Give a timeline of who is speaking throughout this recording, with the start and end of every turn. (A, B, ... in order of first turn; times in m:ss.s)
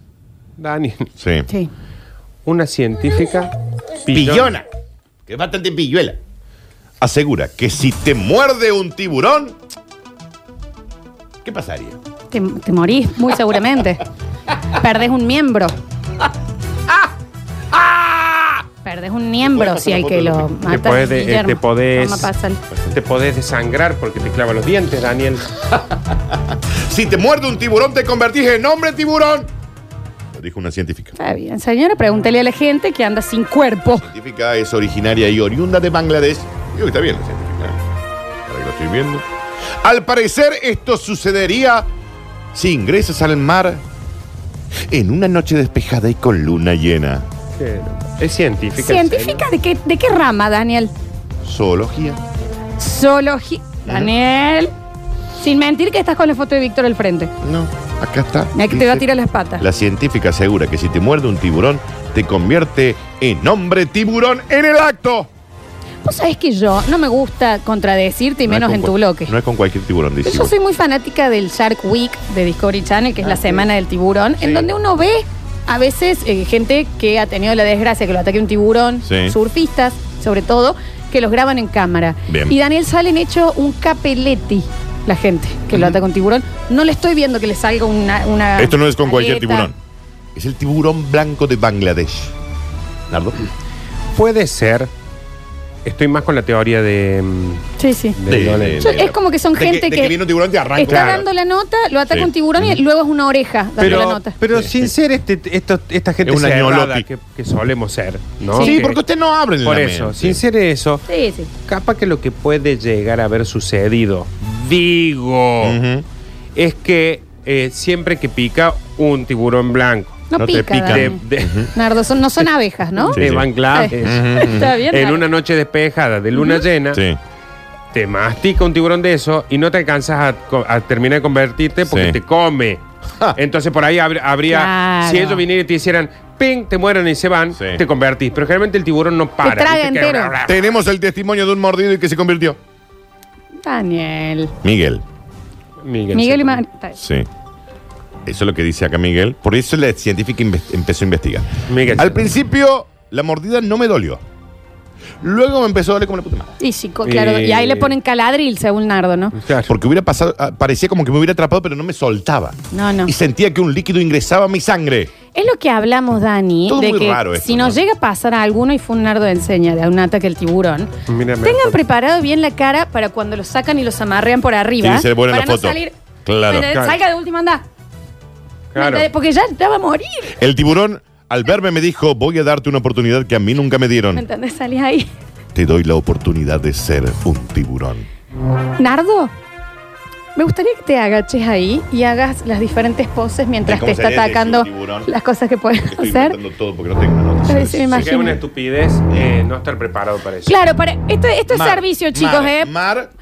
0:00.6-0:01.1 A
0:01.2-0:01.5 B
0:02.4-0:03.5 A
0:04.1-0:04.6 A
0:04.1-0:04.6 B
0:05.3-0:06.2 B
0:07.0-0:09.6 B
0:11.4-0:12.0 B
0:12.3-0:14.0 C
0:14.8-0:15.8 C
0:17.7-0:18.6 B
0:18.8-0:22.6 C
0:19.4-0:20.5 B
0:20.7-0:22.3 A
0:22.9-0:25.4 A
0:25.8-0:29.5 B
0:30.3-0:31.2 B
0:31.2-0:34.1 C
0:33.9-0:37.8 B
0:38.5-0:39.2 B
0:39.8-0:41.9 B
0:42.5-0:43.8 B
0:44.9-0:47.3 B
0:47.6-0:49.5 A
0:48.8-0:50.9 C
0:51.4-0:52.2 B
0:52.8-0:54.7 C
0:53.9-0:54.1 B
0:55.4-0:57.3 C
0:57.4-0:59.1 B
0:58.6-0:59.6 C
0:59.6-1:05.3 B
1:06.0-1:09.3 C
1:08.5-1:10.5 B
1:10.2-1:29.7 C
1:13.2-1:13.7 B
1:14.4-1:14.7 A
1:19.0-1:19.4 B
1:22.3-1:22.6 B
1:25.7-1:26.0 B
1:28.6-1:29.8 B
1:30.4-1:32.3 B
1:33.1-1:33.4 B
1:34.2-1:34.9 A
1:35.8-1:37.6 A
1:37.8-1:38.2 C
1:38.2-1:39.0 A
1:38.3-1:41.3 B
1:38.8-1:40.2 C
1:40.8-1:44.4 C
1:40.9-1:41.3 A
1:42.1-1:42.8 B
1:43.8-1:44.9 B
1:43.8-1:49.0 A
1:46.2-1:47.1 B
1:48.5-1:48.8 C
1:48.5-1:50.4 B
1:49.6-1:51.0 A
1:51.1-1:51.5 C
1:51.6-1:55.8 A
1:55.6-1:56.1 B
1:56.6-2:00.2 A
2:00.3-2:01.2 C
2:00.4-2:01.7 B
2:00.9-2:01.7 A
2:01.8-2:03.2 C
2:03.0-2:07.0 A
2:03.1-2:03.5 B
2:03.7-2:05.3 C
2:04.0-2:04.8 B
2:06.3-2:06.6 C
2:06.9-2:07.2 B
2:07.9-2:12.8 A
2:11.9-2:12.2 B
2:13.4-2:20.7 A
2:14.5-2:15.4 C
2:17.6-2:17.8 B
2:19.4-2:20.3 C
2:20.4-2:22.6 B
2:23.6-2:24.5 C
2:24.6-2:25.0 B
2:25.8-2:26.6 A
2:26.1-2:27.0 C
2:27.0-2:27.3 B
2:28.3-2:34.2 B
2:31.7-2:32.3 A
2:35.2-2:36.5 B
2:36.6-2:39.4 C
2:37.0-2:38.0 A
2:39.4-2:39.7 A
2:39.7-2:45.1 B
2:42.7-2:43.1 C
2:45.3-2:50.9 C
2:46.7-2:47.8 B
2:51.1-2:51.8 A
2:51.4-2:55.9 C
2:54.8-2:56.7 B
2:56.4-2:57.6 C
2:56.7-2:57.0 A
2:58.7-2:59.1 A
2:58.8-3:00.3 C
3:00.4-3:04.2 B
3:04.2-3:05.1 C
3:05.5-3:08.1 B
3:08.8-3:09.3 C
3:10.4-3:16.4 C
3:13.6-3:15.1 B
3:15.8-3:18.4 B
3:17.5-3:18.4 C
3:17.9-3:20.6 A
3:19.1-3:19.4 B
3:20.5-3:22.7 C
3:21.5-3:23.1 B